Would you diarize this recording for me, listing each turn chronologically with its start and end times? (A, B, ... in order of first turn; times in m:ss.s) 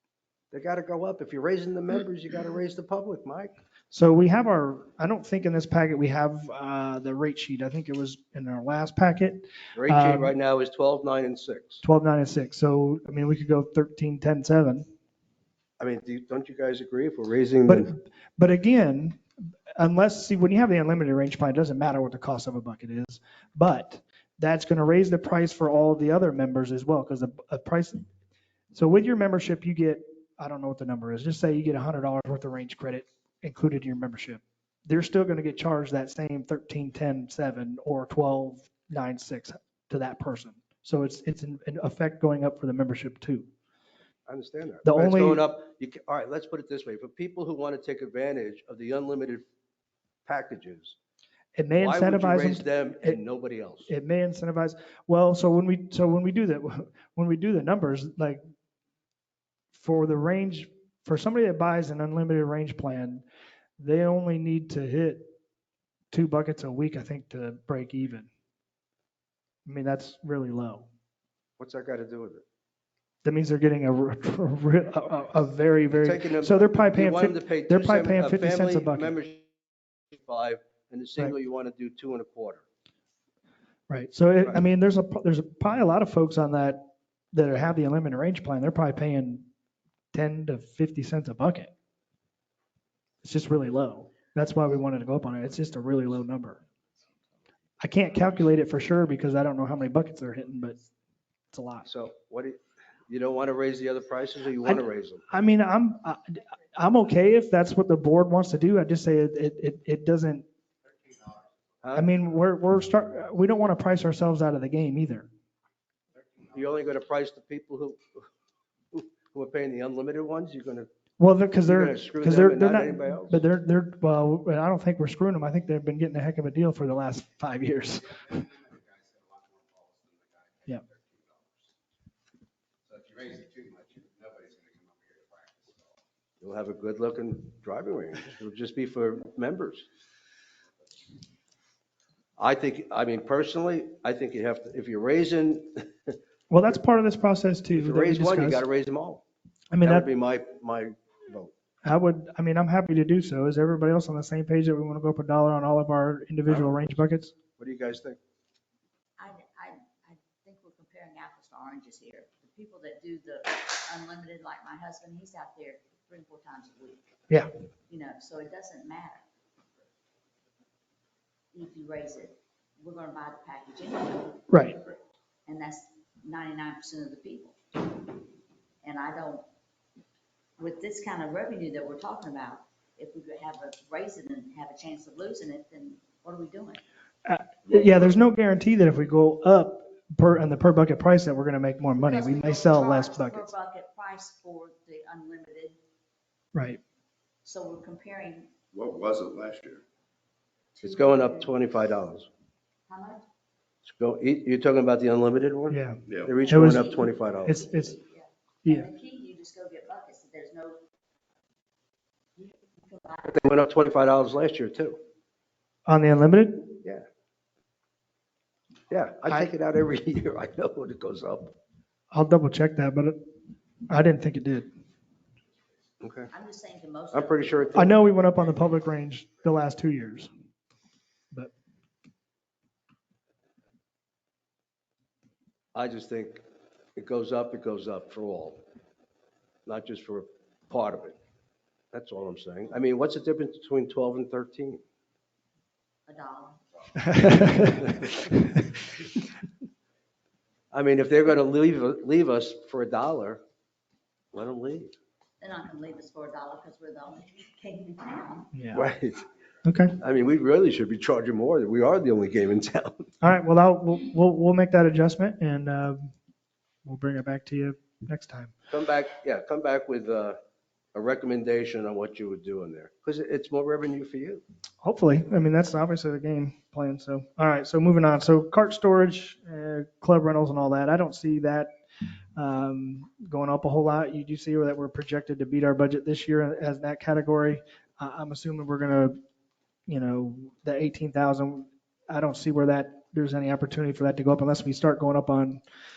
0:00.5-0:03.5 A
0:03.9-0:10.3 B
0:09.8-0:11.8 A
0:11.8-0:14.9 B
0:15.8-0:17.9 A
0:17.7-0:19.2 B
0:19.8-0:28.0 B
0:28.7-0:43.5 B
0:44.3-0:49.4 A
0:44.8-0:45.4 B
0:50.3-0:51.0 A
0:51.6-0:53.2 B
0:51.8-0:53.9 A
0:53.9-0:58.4 B
0:59.7-1:03.2 B
1:03.8-1:05.3 B
1:06.1-1:08.3 B
1:09.7-1:10.9 B
1:11.6-1:12.4 A
1:13.2-1:19.2 B
1:15.9-1:19.5 A
1:20.1-1:22.6 A
1:23.9-1:29.5 B
1:30.1-1:31.7 B
1:33.2-1:36.6 B
1:37.8-1:40.8 B
1:41.5-1:41.9 B
1:41.8-1:45.3 A
1:44.6-1:50.4 B
1:51.1-1:51.4 C
1:51.8-1:52.1 A
1:51.9-1:55.3 B
1:56.5-1:58.3 A
1:58.9-2:00.9 A
2:01.2-2:08.4 B
2:01.6-2:03.4 A
2:08.3-2:11.6 C
2:12.9-2:16.0 C
2:16.4-2:19.9 A
2:22.4-2:26.2 A
2:26.5-2:28.6 B
2:27.7-2:29.2 A
2:29.7-2:30.1 B
2:29.8-2:31.5 A
2:31.8-2:37.4 B
2:36.5-2:36.9 A
2:37.6-2:38.2 A
2:39.2-2:47.0 D
2:47.9-2:49.2 D
2:51.5-2:54.5 D
2:54.5-2:54.8 B
2:55.5-2:57.6 D
2:58.8-2:59.4 D
3:00.6-3:06.8 D
3:07.2-3:13.5 B
3:07.7-3:08.2 C
3:12.0-3:15.8 D
3:16.6-3:16.8 B
3:17.4-3:18.5 D
3:18.7-3:19.8 C
3:20.8-3:21.5 D
3:20.8-3:22.3 A
3:22.9-3:23.2 D
3:23.8-3:27.6 A
3:25.7-3:27.9 B
3:26.1-3:26.4 C
3:26.5-3:30.8 D
3:32.4-3:33.5 D
3:33.3-3:35.0 A
3:35.9-3:36.8 B
3:38.9-3:41.6 A
3:42.1-3:43.2 B
3:43.9-3:44.7 B
3:46.0-3:46.3 A
3:46.3-3:48.0 D
3:47.1-3:48.0 A
3:47.8-3:50.3 B
3:55.8-3:56.4 A
3:57.0-3:58.6 A
3:59.7-4:01.2 A
4:01.9-4:04.8 A
4:06.1-4:06.6 D
4:07.0-4:07.9 B
4:07.2-4:07.8 D
4:10.7-4:13.4 A
4:14.3-4:14.9 A
4:15.4-4:18.5 D
4:18.5-4:18.9 B
4:18.7-4:19.2 A
4:19.6-4:20.0 B
4:20.0-4:23.1 A
4:23.2-4:26.1 B
4:26.8-4:28.5 B
4:28.7-4:30.4 A
4:30.9-4:34.4 A
4:34.8-4:41.7 B
4:42.4-4:49.2 B
4:49.9-4:55.6 B